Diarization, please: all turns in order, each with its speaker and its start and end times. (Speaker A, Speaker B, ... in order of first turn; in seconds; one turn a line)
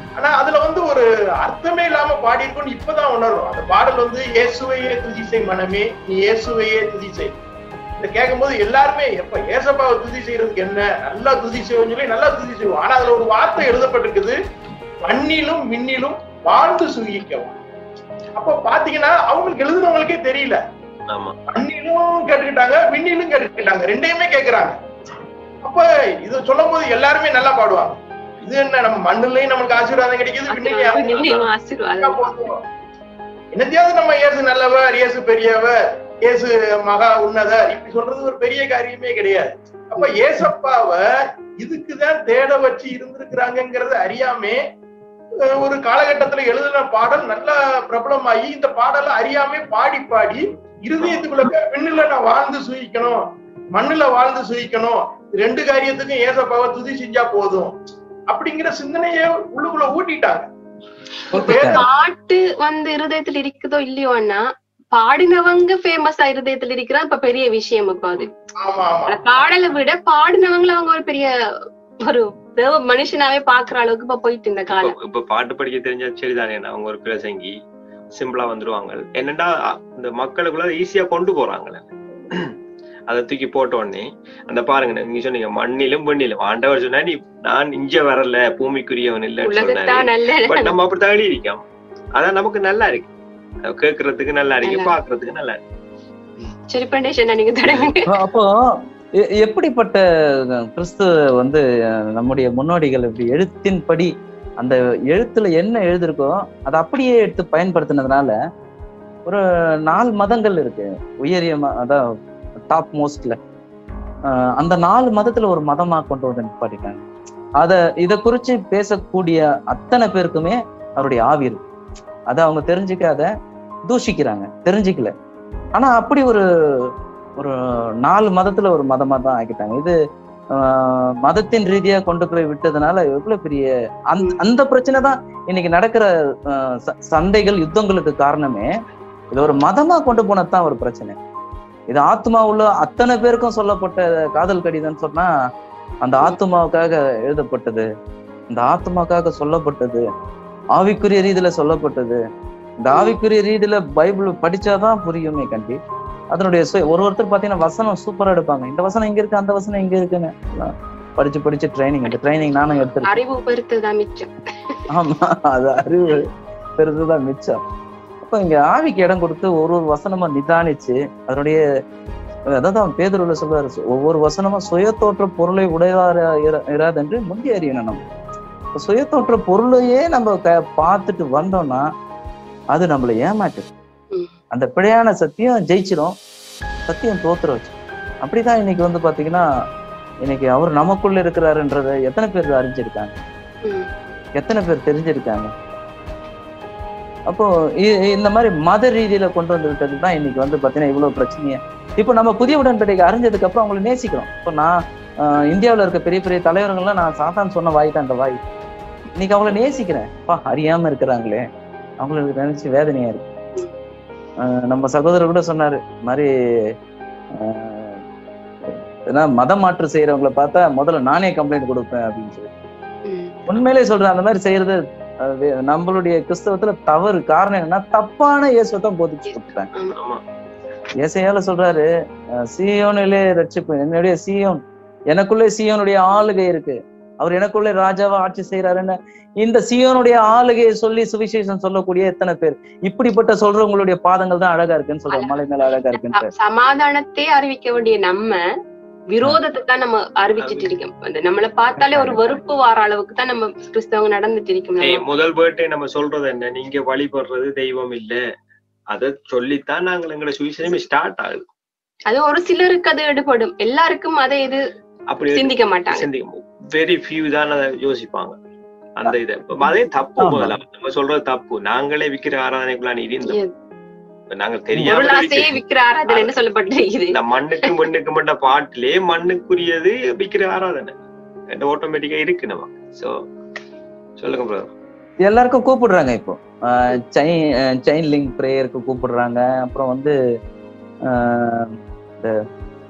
Speaker A: 0.2-7.4
Speaker A: 8.0-14.4
Speaker A: 15.1-17.6
Speaker A: 18.4-20.6
Speaker B: 21.1-21.4
Speaker A: 21.5-24.8
Speaker A: 25.6-31.4
Speaker C: 30.5-32.3
Speaker A: 32.0-32.6
Speaker A: 33.5-41.0
Speaker A: 41.6-44.6
Speaker A: 45.5-53.2
Speaker B: 51.0-51.3
Speaker A: 53.8-57.7
Speaker A: 58.3-60.5
Speaker A: 61.3-61.9
Speaker D: 61.3-61.9
Speaker C: 61.4-68.3
Speaker A: 68.6-69.5
Speaker C: 69.1-71.3
Speaker C: 72.0-74.9
Speaker B: 74.7-77.6
Speaker B: 78.2-82.5
Speaker B: 83.1-91.6
Speaker C: 89.5-90.7
Speaker B: 92.2-93.1
Speaker B: 93.7-95.6
Speaker C: 94.6-94.9
Speaker C: 96.7-98.1
Speaker D: 98.1-98.5
Speaker D: 99.2-100.0
Speaker D: 100.7-101.6
Speaker D: 102.2-108.3
Speaker D: 109.3-112.0
Speaker D: 112.7-113.4
Speaker D: 114.3-117.0
Speaker D: 117.6-121.6
Speaker D: 122.3-123.3
Speaker D: 123.9-125.1
Speaker D: 125.8-130.0
Speaker D: 130.5-138.7
Speaker D: 139.3-141.2
Speaker D: 141.9-145.3
Speaker D: 146.0-147.9
Speaker D: 148.5-150.1
Speaker D: 150.8-152.2
Speaker D: 152.8-155.8
Speaker C: 152.9-153.2
Speaker D: 156.3-163.2
Speaker C: 162.1-164.8
Speaker D: 164.9-166.3
Speaker D: 166.8-167.6
Speaker D: 168.2-171.6
Speaker D: 172.5-178.0
Speaker D: 178.8-181.8
Speaker D: 182.7-183.7
Speaker D: 184.5-186.1
Speaker D: 186.9-189.4
Speaker D: 190.2-193.1
Speaker D: 194.4-195.5
Speaker D: 197.3-208.4
Speaker D: 209.2-211.4
Speaker D: 212.0-213.2
Speaker D: 214.4-216.3
Speaker D: 217.3-218.0
Speaker D: 218.7-222.5
Speaker C: 223.1-223.4
Speaker D: 223.5-229.7
Speaker C: 229.3-230.0
Speaker D: 231.0-231.9
Speaker D: 232.4-246.3
Speaker C: 245.1-248.4
Speaker C: 249.1-255.0
Speaker B: 250.4-250.7
Speaker D: 251.8-252.2
Speaker B: 254.8-258.2
Speaker B: 258.9-261.4
Speaker C: 262.1-264.6
Speaker B: 265.1-268.4
Speaker C: 265.3-266.1
Speaker B: 269.0-273.4
Speaker D: 270.2-270.6
Speaker B: 274.3-276.3
Speaker C: 274.9-277.1
Speaker B: 277.1-280.9
Speaker B: 281.5-283.1
Speaker B: 284.2-284.7
Speaker D: 285.2-290.2
Speaker D: 291.1-292.4